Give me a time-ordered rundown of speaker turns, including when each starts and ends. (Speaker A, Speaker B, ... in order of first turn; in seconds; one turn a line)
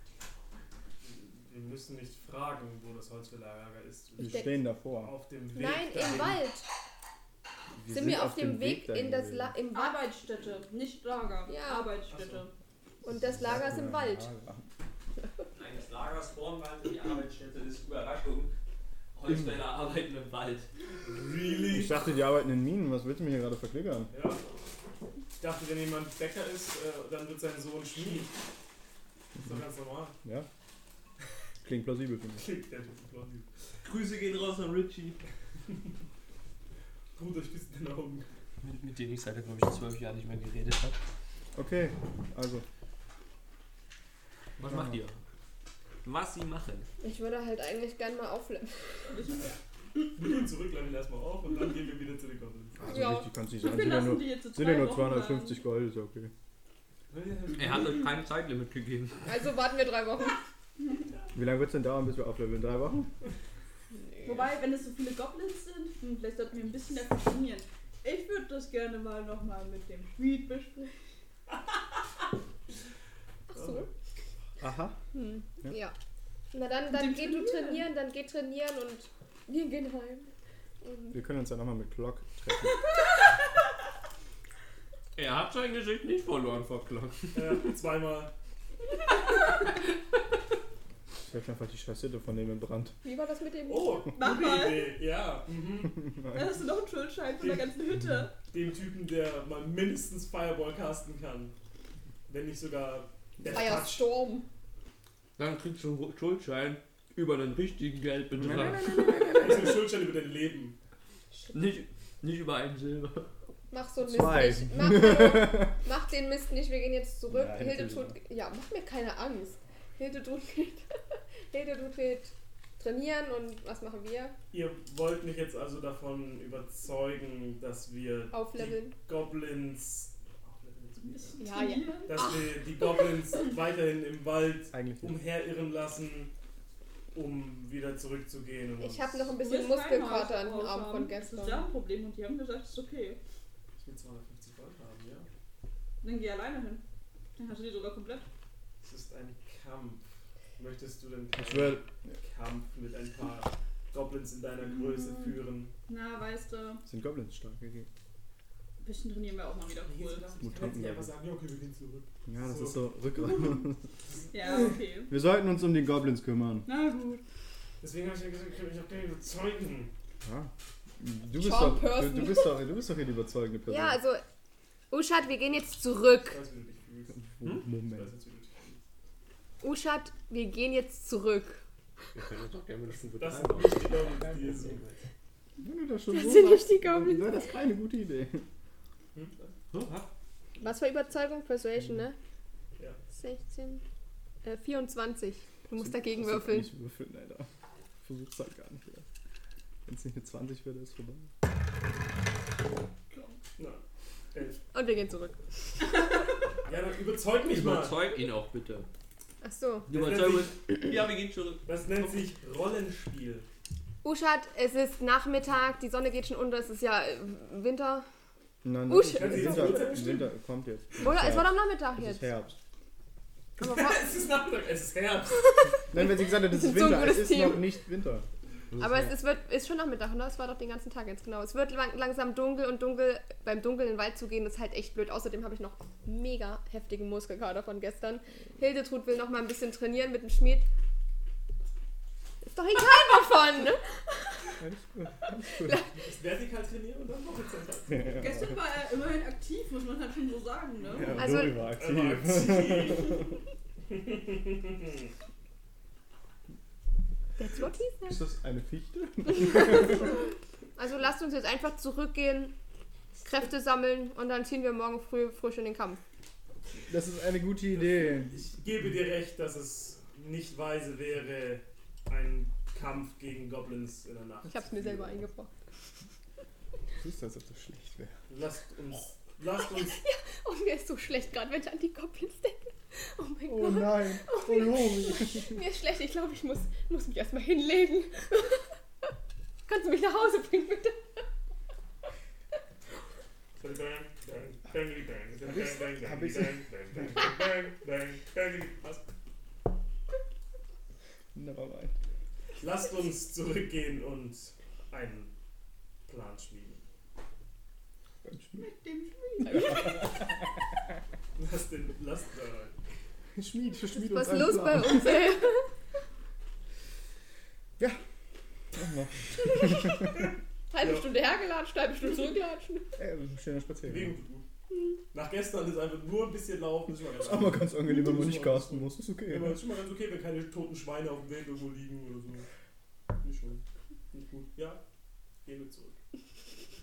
Speaker A: 1.0-6.4
Speaker B: 4.2-5.1
Speaker C: 4.2-4.6
Speaker C: 5.5-6.7
Speaker B: 7.8-9.6
Speaker C: 7.9-10.0
Speaker D: 9.7-12.5
Speaker C: 11.5-11.9
Speaker A: 12.1-12.5
Speaker C: 13.0-14.3
Speaker B: 13.1-14.7
Speaker E: 15.5-18.5
Speaker E: 19.1-20.7
Speaker B: 19.3-19.6
Speaker A: 21.1-22.0
Speaker B: 21.7-24.1
Speaker A: 24.1-24.4
Speaker A: 25.4-28.3
Speaker A: 29.4-30.2
Speaker B: 30.2-30.5
Speaker B: 31.6-32.5
Speaker A: 32.4-33.5
Speaker E: 33.8-35.2
Speaker A: 37.2-38.3
Speaker E: 38.6-41.0
Speaker B: 41.5-42.6
Speaker E: 44.6-45.2
Speaker B: 44.7-45.0
Speaker E: 46.0-46.9
Speaker C: 47.0-49.2
Speaker D: 49.1-49.5
Speaker A: 50.1-53.0
Speaker B: 52.8-56.3
Speaker C: 52.9-53.3
Speaker D: 53.6-55.6
Speaker A: 57.1-58.1
Speaker E: 57.5-59.2
Speaker C: 59.2-60.4
Speaker B: 61.3-63.1
Speaker C: 63.9-64.5
Speaker D: 64.2-70.9
Speaker C: 73.5-73.9
Speaker A: 73.5-73.9
Speaker B: 74.6-75.0
Speaker C: 75.1-76.0
Speaker C: 76.5-80.3
Speaker D: 76.9-77.9
Speaker C: 80.8-81.2
Speaker B: 81.1-82.8
Speaker E: 85.2-87.6
Speaker A: 87.3-88.3
Speaker B: 91.2-93.0
Speaker C: 93.0-94.1
Speaker A: 93.7-96.1
Speaker D: 94.2-95.0
Speaker B: 96.1-96.4
Speaker D: 96.3-98.4
Speaker A: 97.4-97.7
Speaker A: 98.4-101.5
Speaker A: 102.3-104.1
Speaker C: 103.5-104.5
Speaker E: 105.4-109.2
Speaker B: 108.4-109.7
Speaker A: 109.3-110.8
Speaker E: 111.5-113.3
Speaker C: 113.7-124.4
Speaker B: 114.0-115.7
Speaker B: 117.3-118.2
Speaker A: 124.5-131.5
Speaker C: 128.3-129.0
Speaker D: 131.2-132.2
Speaker C: 131.4-132.5
Speaker A: 132.1-136.3
Speaker B: 134.7-135.2
Speaker A: 137.1-139.3
Speaker C: 138.8-141.7
Speaker D: 139.4-143.2
Speaker A: 143.8-145.3
Speaker D: 146.0-146.8
Speaker D: 147.4-148.3
Speaker A: 148.8-150.0
Speaker A: 150.6-155.7
Speaker B: 151.4-152.2
Speaker D: 155.9-156.8
Speaker B: 156.9-157.9
Speaker D: 158.8-160.3
Speaker A: 159.8-162.8
Speaker B: 160.4-161.1
Speaker B: 162.3-163.8
Speaker D: 164.3-165.1
Speaker B: 165.1-166.7
Speaker D: 166.7-167.2
Speaker A: 167.8-169.9
Speaker B: 170.2-174.0
Speaker C: 171.4-172.6
Speaker C: 173.7-174.2
Speaker C: 174.9-176.4
Speaker A: 176.2-177.2
Speaker B: 177.2-178.1
Speaker A: 177.7-178.8
Speaker C: 179.6-181.6
Speaker E: 182.2-184.9
Speaker A: 183.2-184.8
Speaker B: 185.6-188.5
Speaker C: 186.1-187.5
Speaker A: 189.2-189.5
Speaker E: 189.7-190.1
Speaker C: 190.6-192.2
Speaker C: 193.1-193.8
Speaker C: 194.4-196.7
Speaker B: 195.8-197.5
Speaker B: 198.0-199.1
Speaker B: 199.9-201.3
Speaker A: 204.3-204.6
Speaker C: 204.7-206.1
Speaker A: 206.7-208.0
Speaker E: 207.4-208.9
Speaker C: 209.4-209.9
Speaker E: 209.9-211.7
Speaker A: 209.9-210.6
Speaker A: 211.6-213.5
Speaker C: 214.0-218.1
Speaker B: 218.6-222.6
Speaker C: 218.9-220.0
Speaker A: 219.0-220.3
Speaker C: 221.0-222.3
Speaker A: 223.6-225.7
Speaker C: 223.6-224.2
Speaker C: 225.6-227.8
Speaker B: 225.9-228.3
Speaker C: 228.8-240.7
Speaker C: 242.5-243.9
Speaker B: 244.6-245.8
Speaker C: 245.4-246.0
Speaker A: 246.0-248.3
Speaker B: 247.9-248.2
Speaker D: 248.1-251.2
Speaker B: 250.9-253.3
Speaker A: 251.1-253.3
Speaker C: 251.2-251.6
Speaker A: 253.9-255.1
Speaker C: 257.4-258.2
Speaker B: 258.1-260.1
Speaker C: 259.6-259.9
Speaker C: 260.8-262.6
Speaker C: 263.2-266.0
Speaker B: 266.9-268.3
Speaker A: 267.7-275.2
Speaker C: 274.5-275.5
Speaker B: 277.0-278.2
Speaker A: 278.3-280.0
Speaker C: 279.8-288.6
Speaker B: 283.5-285.6
Speaker C: 289.7-291.2
Speaker A: 293.6-299.1
Speaker B: 295.5-296.6
Speaker B: 301.4-301.9
Speaker A: 302.6-305.3
Speaker A: 306.1-306.8
Speaker B: 308.2-308.7
Speaker D: 308.6-310.0
Speaker C: 309.5-309.9
Speaker B: 309.5-310.1
Speaker A: 311.4-312.8
Speaker B: 313.4-315.4
Speaker C: 313.9-315.7
Speaker B: 318.7-320.2
Speaker C: 319.5-320.1
Speaker C: 320.7-323.0
Speaker A: 320.8-321.1
Speaker B: 323.0-324.2
Speaker A: 323.8-324.4
Speaker A: 325.1-332.5
Speaker B: 327.1-329.6
Speaker A: 333.2-334.8
Speaker A: 335.4-336.0